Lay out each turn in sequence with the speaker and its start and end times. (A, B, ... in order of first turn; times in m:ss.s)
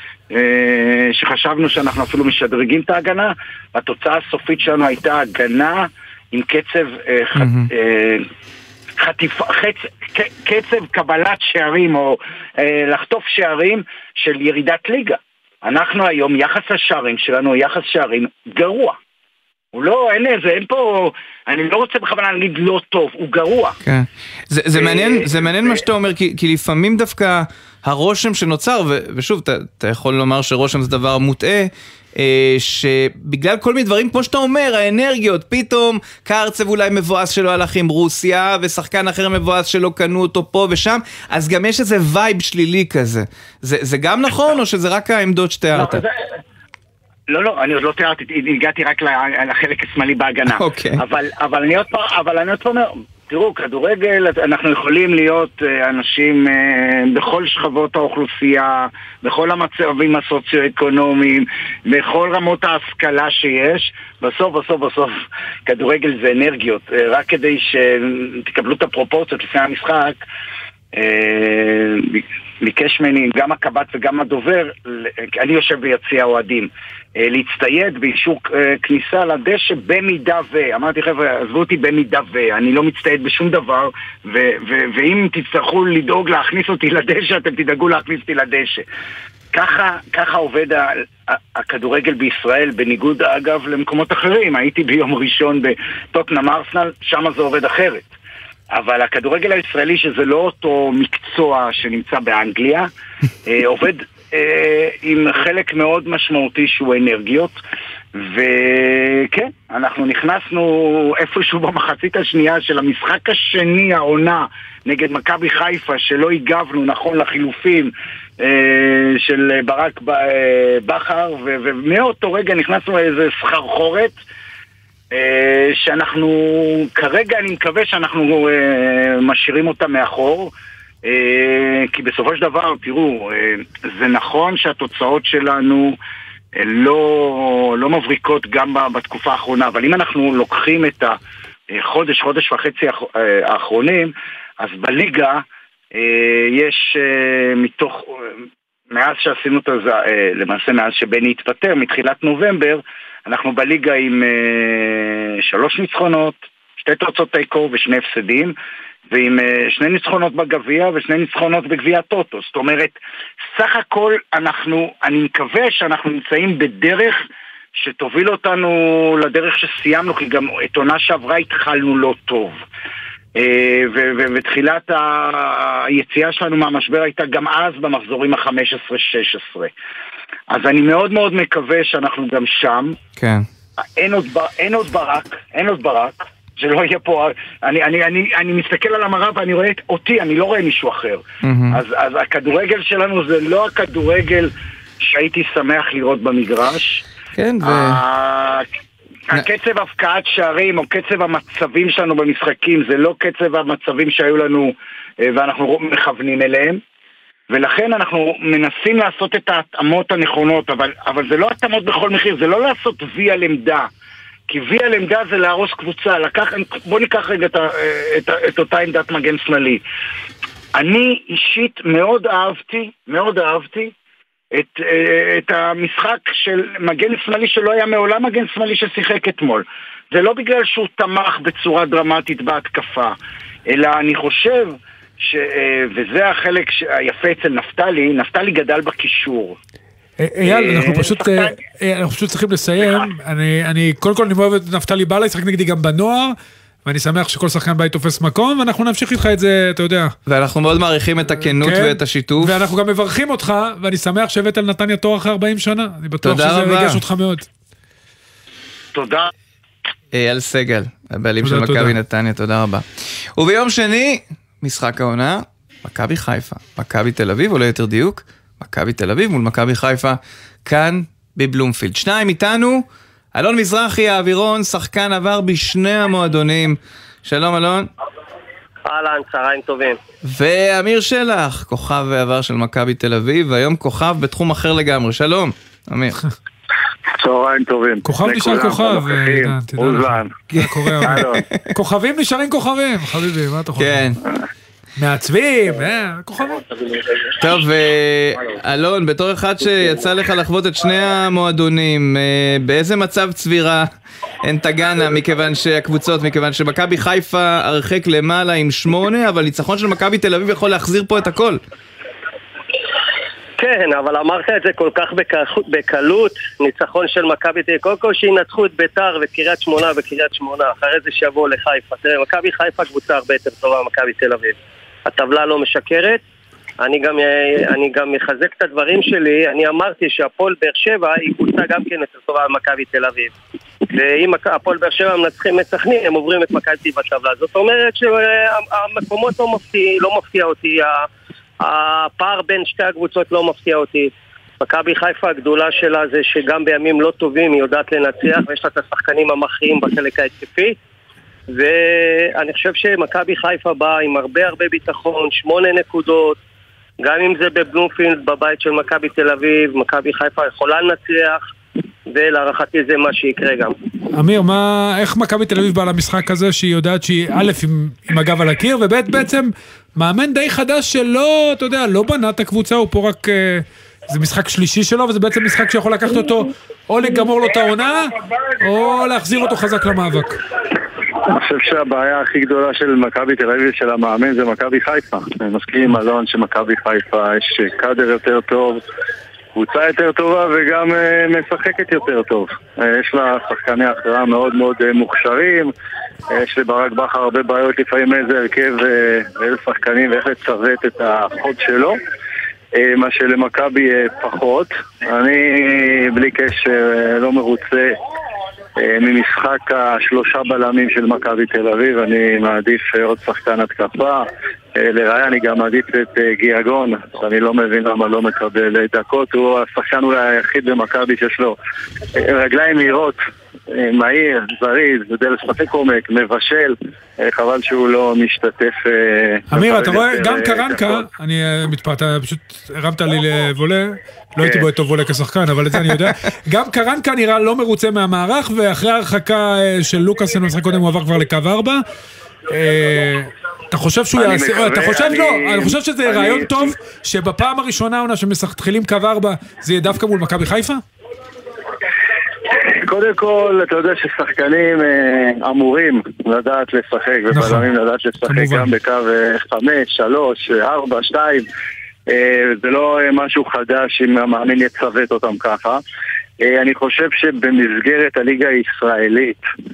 0:00.3-0:08.2 A
0:07.4-0:07.7 B
0:09.0-0:19.0 A
0:19.7-0:23.8 A
0:23.8-0:46.0 B
0:24.7-0:25.8 A
0:45.7-0:46.1 A
0:47.3-1:10.2 A
0:50.5-0:51.0 B
1:10.9-1:28.8 A
1:29.5-1:38.1 A
1:38.7-1:42.9 A
1:43.4-1:47.5 A
1:48.1-2:04.1 A
2:05.1-2:10.5 A
2:11.0-2:16.0 A
2:16.6-2:21.2 A
2:21.7-2:28.4 A
2:28.9-2:38.5 A
2:39.1-2:43.0 A
2:43.5-2:47.2 A
2:47.8-2:52.6 A
2:53.4-2:59.7 A
3:00.5-3:03.0 A
3:03.2-3:03.4 B
3:04.0-3:17.0 A
3:11.4-3:11.8 B
3:17.3-3:18.0 B
3:17.6-3:18.6 A
3:19.3-3:26.8 A
3:27.5-3:33.9 A
3:34.5-3:39.8 A
3:40.7-3:43.9 A
3:44.5-3:53.1 A
3:53.7-3:59.6 A
4:00.2-4:06.3 C
4:00.4-4:01.5 A
4:06.8-4:10.1 C
4:10.3-4:12.5 B
4:11.4-4:17.5 C
4:16.2-4:17.0 B
4:18.9-4:19.3 A
4:20.1-4:22.8 B
4:21.4-4:21.9 C
4:23.4-4:37.9 B
4:38.8-4:40.0 D
4:40.2-4:46.2 B
4:47.2-4:50.3 E
4:48.0-4:54.1 C
4:50.6-4:51.6 B
4:51.0-4:51.4 E
4:53.8-4:54.2 B
4:55.0-4:56.6 C
4:57.4-5:03.9 B
5:04.4-5:11.6 B
5:13.6-5:26.2 D
5:26.8-5:33.3 D
5:33.9-5:41.1 D
5:41.6-5:50.8 D
5:51.5-5:56.4 D
5:57.0-6:01.4 D
6:02.1-6:03.7 D
6:04.1-6:20.4 C
6:21.3-6:28.8 E
6:29.5-6:35.7 E
6:36.3-6:42.0 E
6:42.7-6:47.9 E
6:48.8-6:54.2 E
6:54.8-7:01.6 E
7:02.1-7:03.2 E
7:03.7-7:10.8 E
7:09.5-7:21.8 C
7:22.5-7:30.8 C
7:32.6-7:41.4 E
7:37.3-7:37.7 C
7:38.2-7:38.7 C
7:42.1-7:45.8 E
7:46.4-7:49.4 E